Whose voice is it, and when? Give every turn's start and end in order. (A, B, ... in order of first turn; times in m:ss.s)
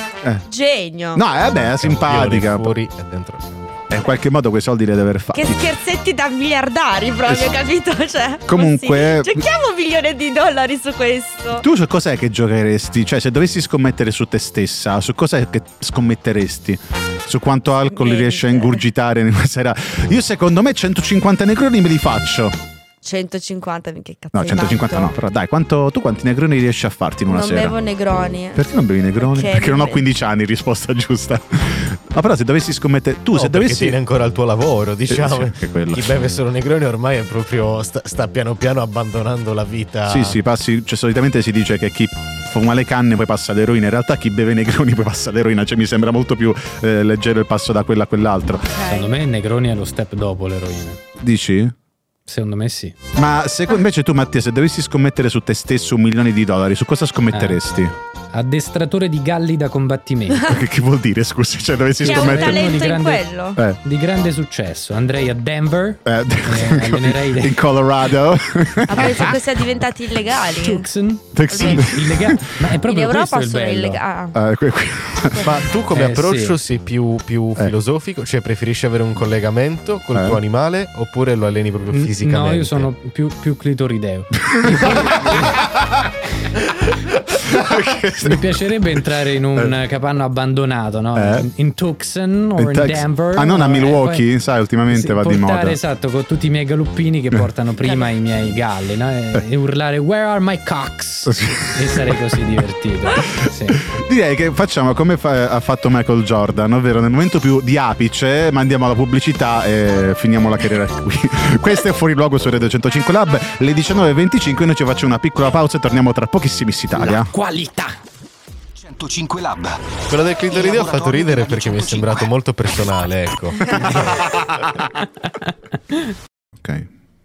0:00.5-0:01.2 A
0:01.1-0:02.7 B
0:01.5-0:03.8 C
0:03.9-0:05.6 B
0:05.3-0:11.6 A
0:08.5-0:09.4 B
0:11.6-0:22.6 B
0:17.9-0:18.8 A
0:23.0-0:25.1 A
0:24.3-0:27.8 B
0:27.3-0:28.6 A
0:28.5-0:34.0 B
0:29.2-0:30.0 A
0:33.3-0:40.4 C
0:35.1-0:36.2 B
0:40.1-0:48.7 B
0:48.6-0:49.1 A
0:48.9-0:51.0 D
0:51.2-0:51.7 B
0:52.3-0:52.9 D
0:53.2-0:57.9 B
0:57.3-0:57.6 D
0:58.3-1:00.5 D
1:00.4-1:02.9 B
1:02.0-1:07.6 D
1:02.0-1:03.6 A
1:06.0-1:09.4 B
1:08.9-1:10.9 A
1:10.5-1:14.0 D
1:11.3-1:12.6 B
1:11.5-1:11.9 A
1:12.8-1:14.4 A
1:14.3-1:15.5 B
1:15.3-1:15.7 A
1:15.4-1:22.9 C
1:15.9-1:16.6 D
1:20.1-1:20.4 B
1:21.9-1:25.6 D
1:24.5-1:26.0 B
1:27.3-1:28.4 B
1:28.2-1:34.3 D
1:31.1-1:31.5 B
1:32.6-1:35.8 B
1:34.8-1:43.8 D
1:37.8-1:38.1 A
1:41.2-1:42.2 B
1:43.7-1:57.3 B
1:52.4-1:52.7 C
1:57.0-1:58.0 D
1:58.8-1:59.9 E
2:00.1-2:04.2 C
2:00.5-2:02.3 E
2:03.8-2:04.8 B
2:06.6-2:06.9 B